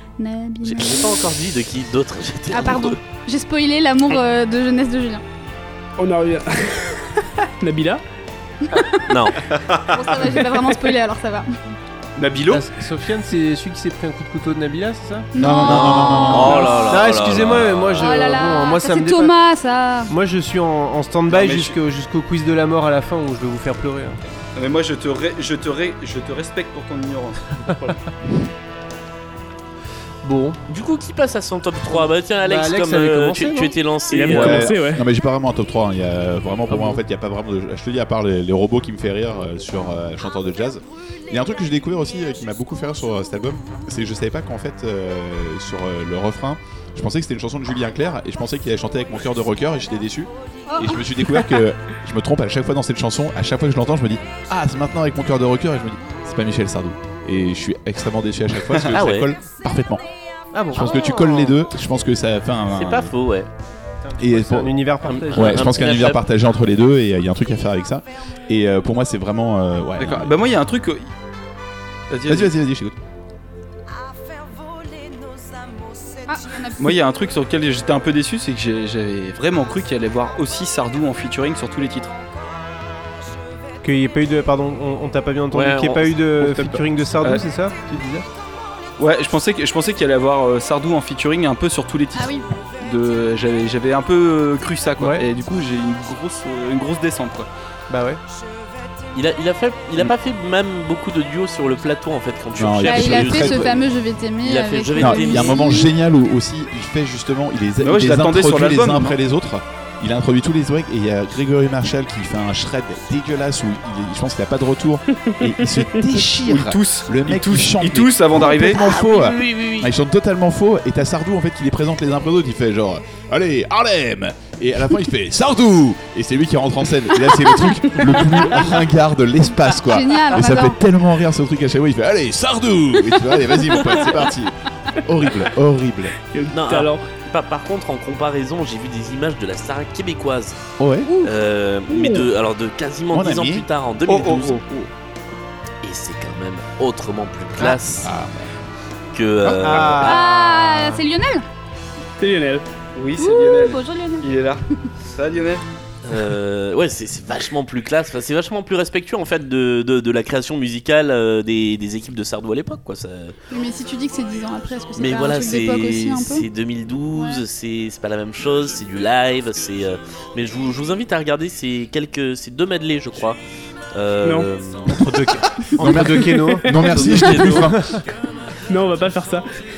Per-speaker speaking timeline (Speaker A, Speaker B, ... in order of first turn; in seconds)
Speaker A: 0.2-1.2, 2.5-5.2, 8.7-9.0, 9.9-11.5, 15.3-16.9, 18.0-20.1, 50.7-51.0, 76.3-76.9, 92.1-92.5, 102.8-105.9, 129.8-130.8, 141.1-141.3, 150.0-151.4, 153.2-154.3, 163.5-166.4, 167.1-167.4
Speaker B: 0.6-3.0, 9.1-9.4, 15.6-18.1, 30.7-34.7, 58.9-59.3, 62.7-63.5, 65.1-66.2, 85.5-86.1, 99.1-103.8, 104.4-105.7, 118.6-119.9, 136.5-140.6, 141.2-144.6, 145.8-148.1, 149.1-150.2, 156.0-163.3, 165.0-173.4, 173.9-175.6, 176.9-177.7
Speaker C: 6.0-8.0, 34.1-35.0, 136.2-137.1, 152.2-152.6, 178.7-179.5
Speaker D: 12.2-12.7, 21.3-21.8, 24.6-27.6, 70.0-71.1, 72.1-72.5, 76.8-82.1, 89.0-97.5, 107.8-109.2, 116.4-118.8, 144.1-144.9, 152.9-155.6
Speaker E: 12.5-15.3, 16.4-19.3, 20.1-24.2, 30.2-30.6, 32.4-33.7, 36.7-37.0, 60.5-60.9, 64.0-65.7, 83.8-88.2, 95.0-95.2, 97.9-98.2, 149.6-150.2, 174.9-176.8, 177.5-178.0
Speaker F: 15.3-16.7, 34.3-60.0, 60.7-63.1, 64.2-64.8, 65.3-70.3, 72.2-73.0, 102.5-103.8, 105.0-136.1, 140.8-141.1, 143.1-143.7, 148.0-148.6, 149.4-150.0, 175.8-178.0